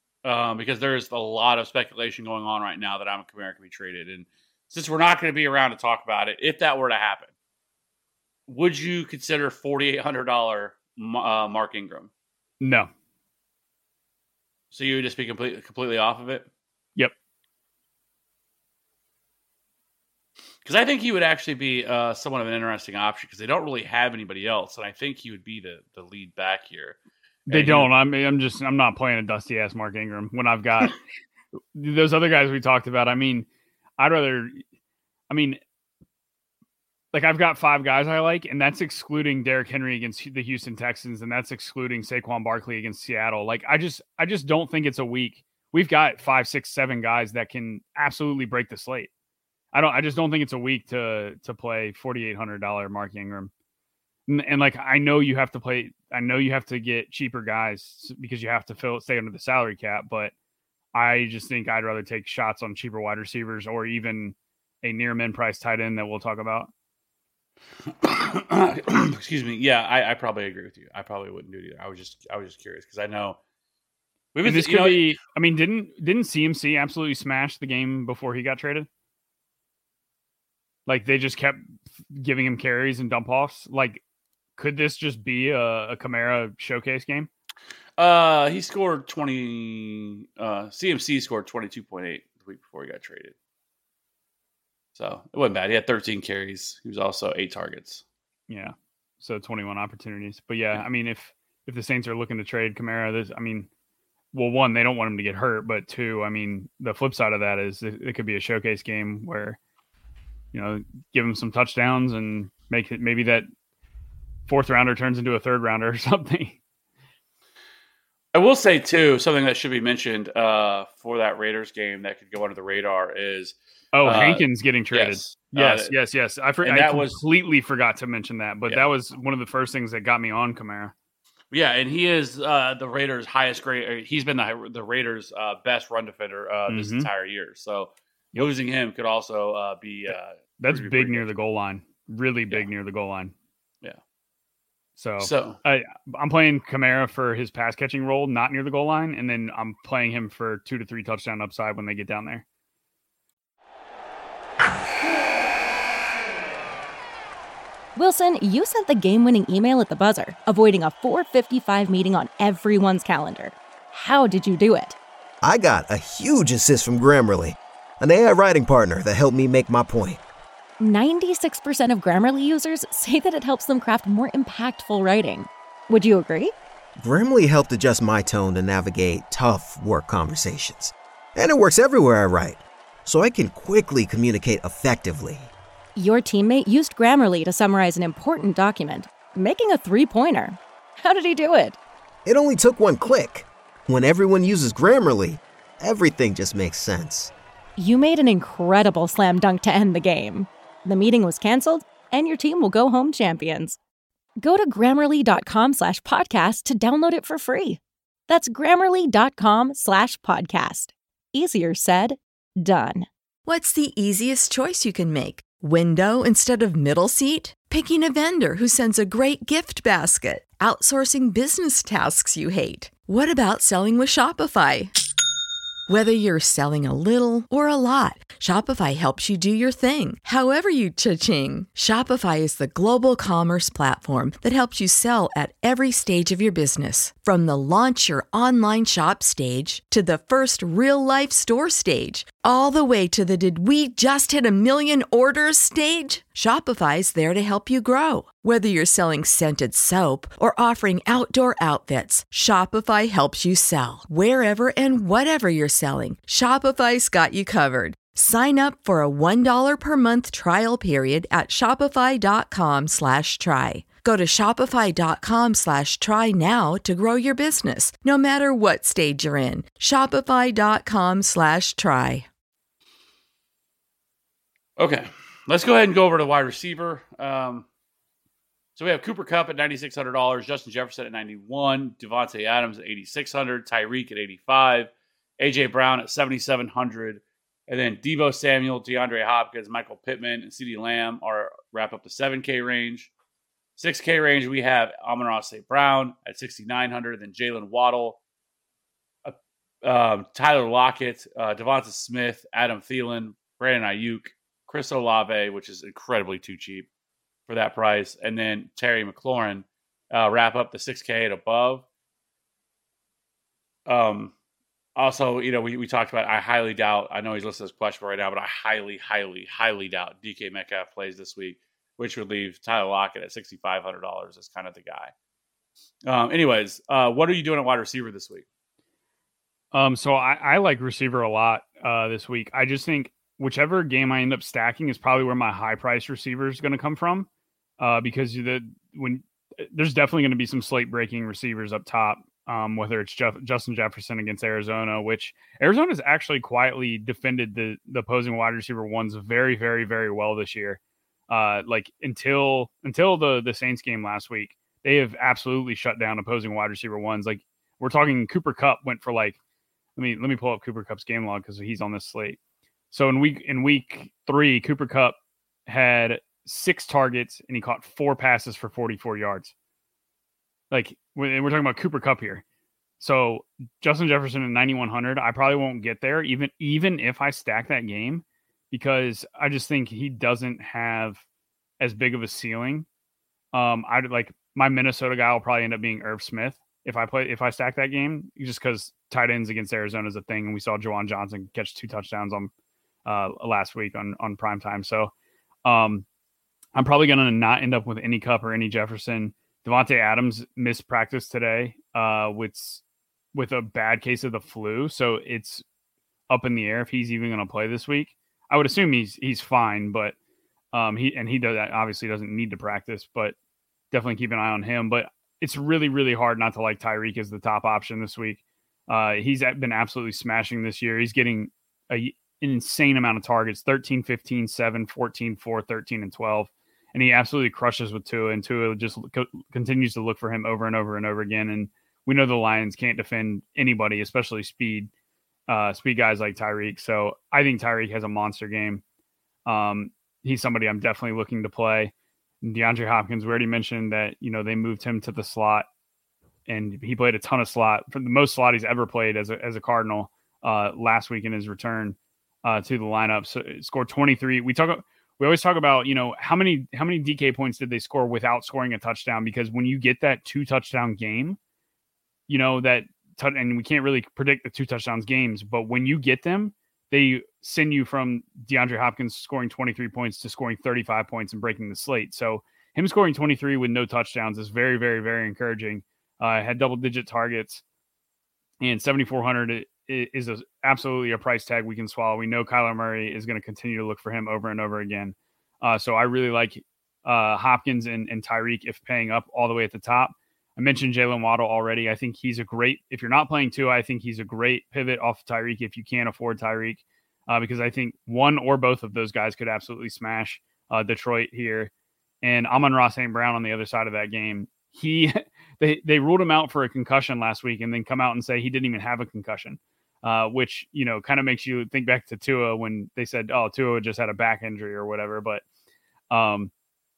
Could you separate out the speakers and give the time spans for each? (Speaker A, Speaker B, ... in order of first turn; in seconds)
Speaker A: 0.2-7.3, 8.5-12.1, 14.7-16.5, 20.6-27.0, 27.5-27.9, 67.9-73.4, 74.3-75.2, 88.0-93.3, 95.0-98.0, 118.3-125.9, 126.6-127.2, 131.5-141.3, 145.2-145.6, 274.8-277.7, 278.8-293.1, 293.8-298.2, 299.2-306.9, 307.5-311.9, 313.9-314.3, 314.9-325.1, 326.1-328.4
Speaker B: 12.6-12.9, 27.5-30.9, 31.7-33.5, 34.0-34.6, 35.3-35.6, 37.1-49.1, 49.7-53.5, 54.3-60.3, 60.9-66.7, 74.4-78.9, 80.9-84.0, 84.6-87.3, 98.5-103.7, 104.3-109.6, 110.5-113.5, 114.5-116.6, 123.9-130.9, 136.7-137.1, 140.6-143.3, 145.0-152.4, 329.7-337.3, 337.8-359.4, 359.9-362.4, 362.9-369.5, 370.7-372.4, 373.0-381.2, 381.8-382.9, 383.5-392.5, 393.1-395.1, 395.6-396.1, 396.7-402.8, 403.3-405.6, 406.3-410.1, 410.7-413.3, 413.9-434.9, 435.5-438.8, 439.4-445.7, 446.5-461.4, 462.3-477.6, 478.6-501.7, 502.2-515.4, 516.1-516.5
Speaker C: 157.9-164.9, 170.8-176.5, 185.9-191.8, 197.8-203.8, 204.4-213.1
Speaker D: 165.4-170.2, 177.0-185.5, 192.2-197.3
Speaker E: 213.4-224.9, 225.9-272.3